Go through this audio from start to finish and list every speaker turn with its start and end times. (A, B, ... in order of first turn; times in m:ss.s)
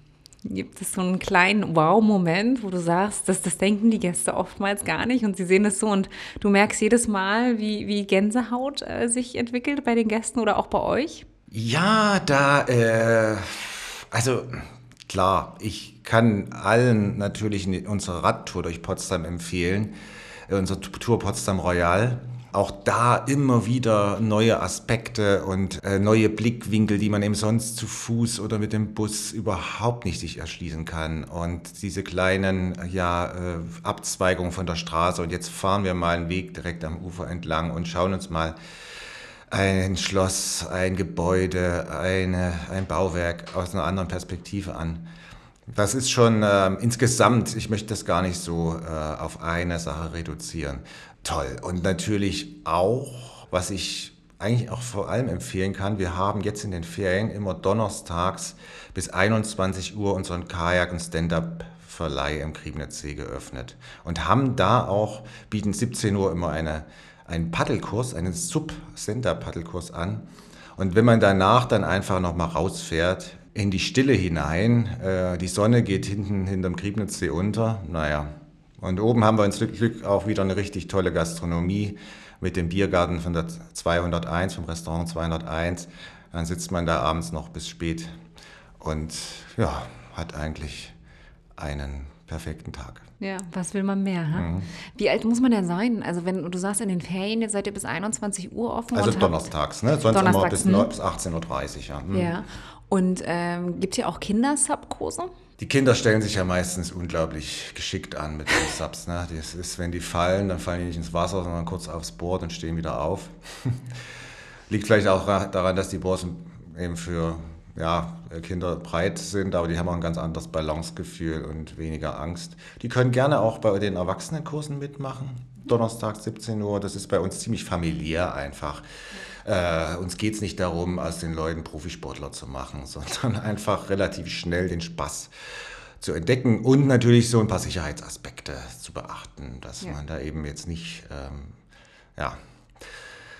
0:00.4-0:11.3 A
0:11.5-0:20.0 B
0:20.5-0:38.6 B
0:39.5-0:45.1 B
0:45.7-1:28.2 B
1:28.8-1:30.9 B
1:31.6-1:33.0 B
1:33.2-1:39.4 A
1:34.3-1:34.7 B
1:38.9-1:42.3 B
1:40.1-1:40.9 A
1:42.1-1:45.3 A
1:45.6-1:53.9 B
1:54.7-2:15.3 B
2:16.0-2:21.6 B
2:22.2-2:22.9 B